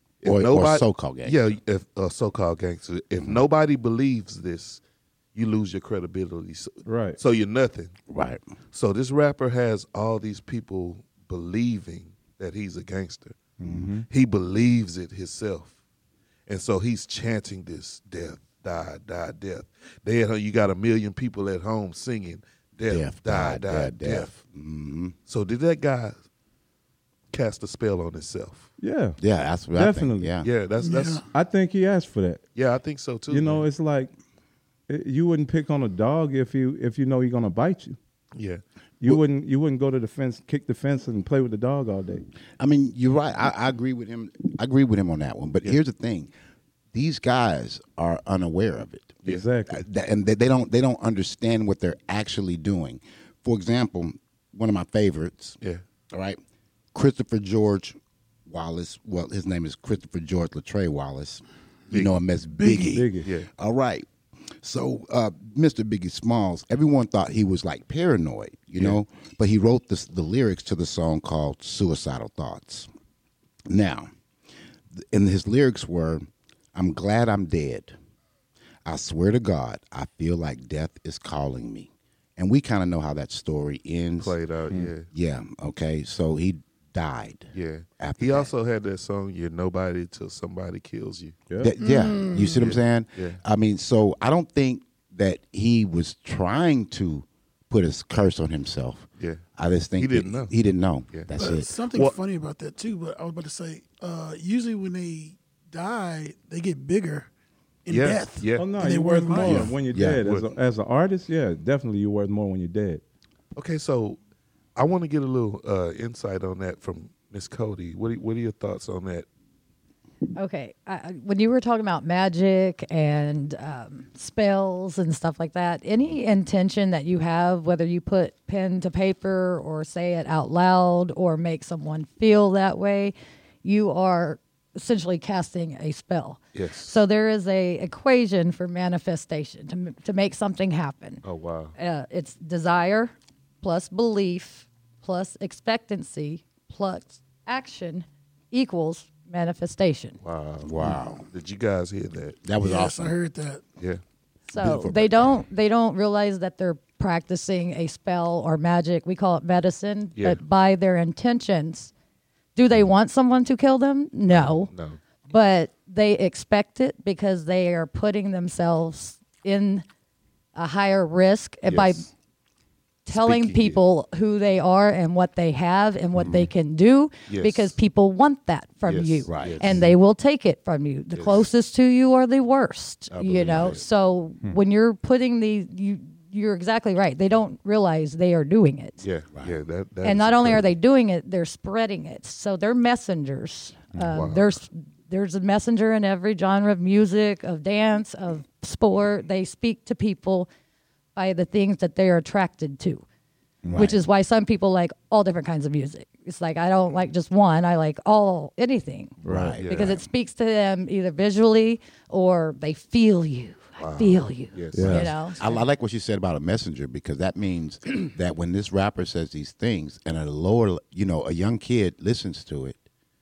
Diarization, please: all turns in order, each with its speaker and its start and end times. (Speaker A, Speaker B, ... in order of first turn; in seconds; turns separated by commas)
Speaker A: 0.2-4.8, Speaker B: 0.2-1.4, Speaker B: 3.2-3.4, Speaker A: 5.3-7.9, Speaker C: 6.8-7.2, Speaker B: 8.1-8.4, Speaker A: 8.7-13.4, Speaker C: 13.6-14.1, Speaker B: 13.6-13.9, Speaker A: 14.1-15.7, Speaker A: 16.5-24.4, Speaker B: 22.9-25.1, Speaker A: 25.3-26.2, Speaker A: 27.3-28.7, Speaker C: 28.8-29.2, Speaker B: 29.2-30.5, Speaker C: 29.7-30.3, Speaker A: 30.4-31.2, Speaker D: 30.8-31.2, Speaker C: 31.3-32.4, Speaker A: 32.5-33.6, Speaker C: 33.3-34.1, Speaker C: 34.9-38.0, Speaker A: 38.4-39.2, Speaker C: 39.0-42.3, Speaker B: 42.6-46.3, Speaker B: 46.9-55.6, Speaker C: 49.2-49.8, Speaker B: 56.1-56.4, Speaker B: 56.9-64.1, Speaker A: 61.9-62.2, Speaker D: 62.5-63.0, Speaker C: 62.9-63.2, Speaker A: 63.2-63.5, Speaker B: 64.6-72.9, Speaker B: 73.7-74.1, Speaker B: 74.9-78.0, Speaker B: 78.8-84.4, Speaker A: 84.2-85.1, Speaker B: 85.1-88.5, Speaker A: 87.5-91.4, Speaker B: 91.6-101.7, Speaker D: 91.8-92.6, Speaker A: 92.5-93.4, Speaker A: 100.0-100.5, Speaker D: 101.3-107.3, Speaker D: 107.8-109.7, Speaker A: 107.9-108.7, Speaker C: 108.6-113.0, Speaker B: 109.5-110.2, Speaker A: 110.2-110.5, Speaker A: 113.5-114.2, Speaker A: 114.8-119.2, Speaker E: 120.4-141.2, Speaker A: 136.5-137.0, Speaker A: 141.2-141.7, Speaker E: 141.8-150.2, Speaker A: 150.2-152.4, Speaker B: 150.6-151.2, Speaker D: 150.8-151.2, Speaker B: 152.4-153.1, Speaker D: 152.6-153.6, Speaker E: 154.5-161.9, Speaker A: 154.6-155.3, Speaker E: 162.6-164.7, Speaker A: 164.3-165.0, Speaker E: 165.3-169.8, Speaker E: 170.5-172.1, Speaker A: 171.7-172.0, Speaker E: 173.1-189.0, Speaker A: 173.1-173.8, Speaker B: 176.2-176.5, Speaker A: 177.3-177.8, Speaker A: 178.8-179.7, Speaker B: 179.3-179.9, Speaker A: 181.1-181.4, Speaker A: 183.1-183.8, Speaker B: 183.3-183.7, Speaker A: 189.0-190.7, Speaker E: 190.0-200.5, Speaker A: 194.1-194.6, Speaker E: 201.2-203.0, Speaker B: 203.7-204.0, Speaker E: 203.8-215.6, Speaker B: 209.2-209.9, Speaker C: 209.2-209.6, Speaker A: 209.6-210.0, Speaker A: 213.8-215.1, Speaker C: 214.7-215.1, Speaker B: 214.8-222.8